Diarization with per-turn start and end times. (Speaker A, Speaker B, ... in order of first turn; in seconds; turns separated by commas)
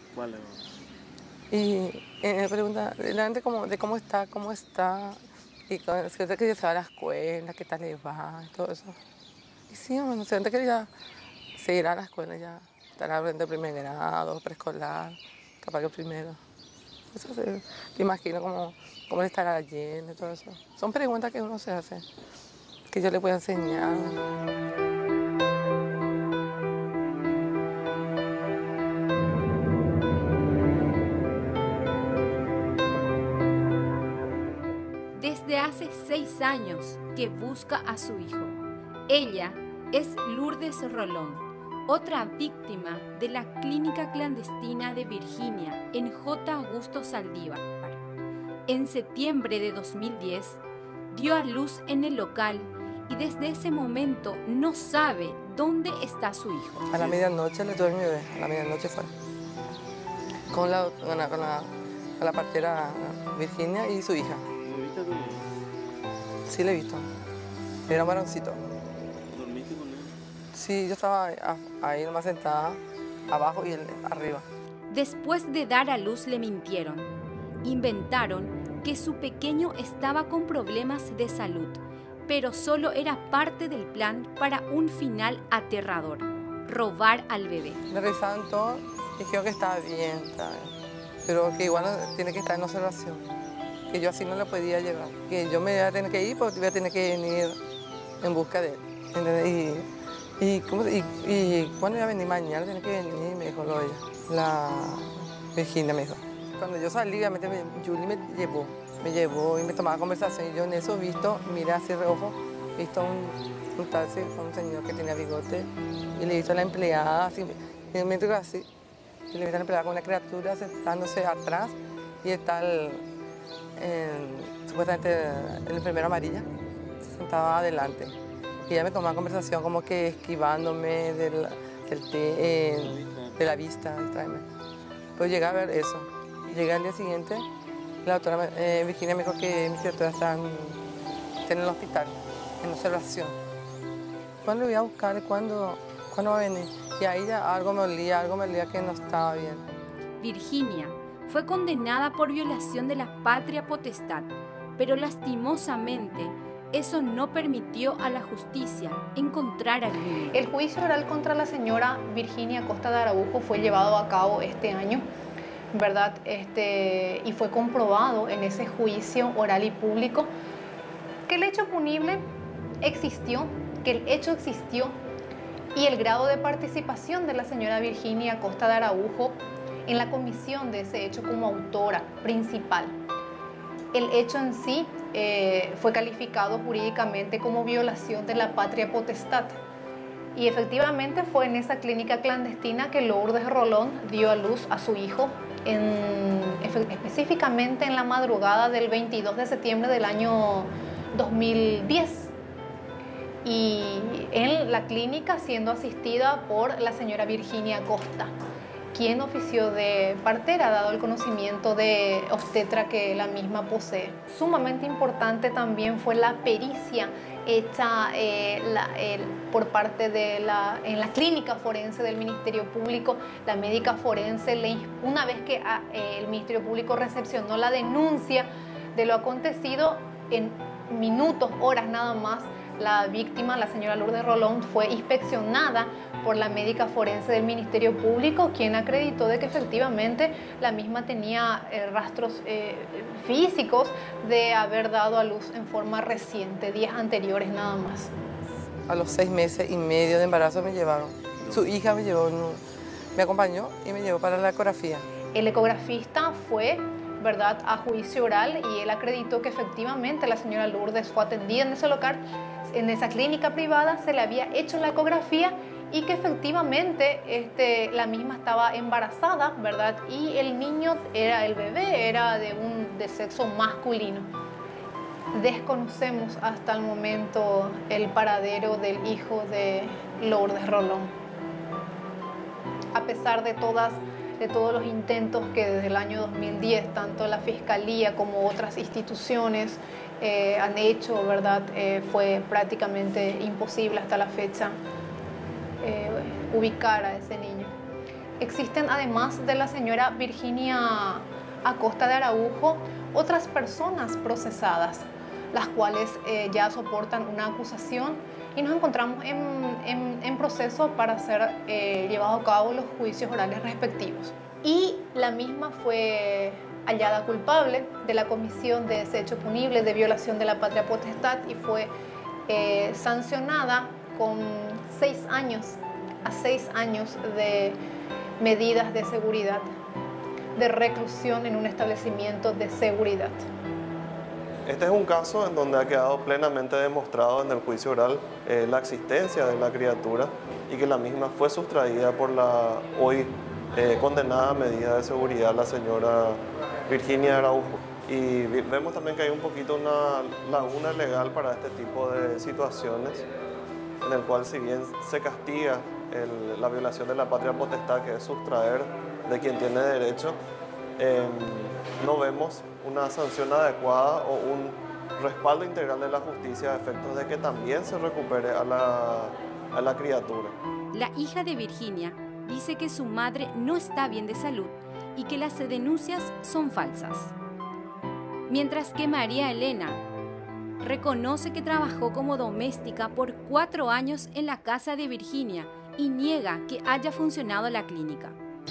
Speaker A: 0.1-0.5, Speaker B: 1.5-9.0, Speaker B: 9.7-10.9, Speaker B: 11.6-16.4, Speaker B: 17.1-22.0, Speaker B: 22.9-24.2, Speaker C: 35.1-38.6, Speaker C: 39.1-48.0, Speaker C: 48.7-50.6, Speaker C: 51.1-56.9, Speaker B: 56.9-59.1, Speaker B: 60.5-64.4, Speaker A: 64.6-65.4, Speaker B: 66.5-67.0, Speaker B: 67.9-68.6, Speaker A: 69.3-70.1, Speaker B: 70.5-74.4, Speaker C: 74.9-77.1, Speaker C: 77.6-87.8, Speaker B: 87.9-90.7, Speaker B: 91.2-93.2, Speaker B: 93.9-97.6, Speaker B: 98.2-99.8, Speaker B: 100.4-118.7, Speaker B: 119.3-123.0, Speaker B: 123.8-126.5, Speaker B: 127.0-128.2, Speaker B: 128.7-134.4, Speaker A: 132.9-133.3, Speaker B: 135.2-137.4, Speaker B: 138.0-140.8, Speaker B: 141.4-143.4, Speaker B: 144.4-149.6, Speaker C: 150.2-160.3, Speaker D: 160.3-165.0, Speaker D: 165.7-170.3, Speaker D: 171.3-172.2, Speaker D: 172.8-174.9, Speaker D: 175.7-179.3, Speaker D: 179.9-182.9, Speaker D: 183.9-189.6, Speaker D: 190.3-202.3, Speaker D: 203.4-208.3, Speaker D: 208.9-248.1, Speaker B: 248.9-252.6, Speaker B: 253.2-255.0, Speaker D: 255.3-274.3, Speaker D: 275.3-281.1, Speaker D: 282.9-294.8, Speaker D: 295.8-297.7, Speaker D: 298.4-321.9, Speaker D: 322.5-327.8, Speaker D: 328.4-329.7, Speaker D: 330.6-333.4, Speaker E: 334.7-353.2, Speaker E: 354.0-360.4, Speaker E: 361.0-370.5, Speaker C: 370.9-377.3, Speaker C: 378.5-380.0, Speaker C: 380.8-388.4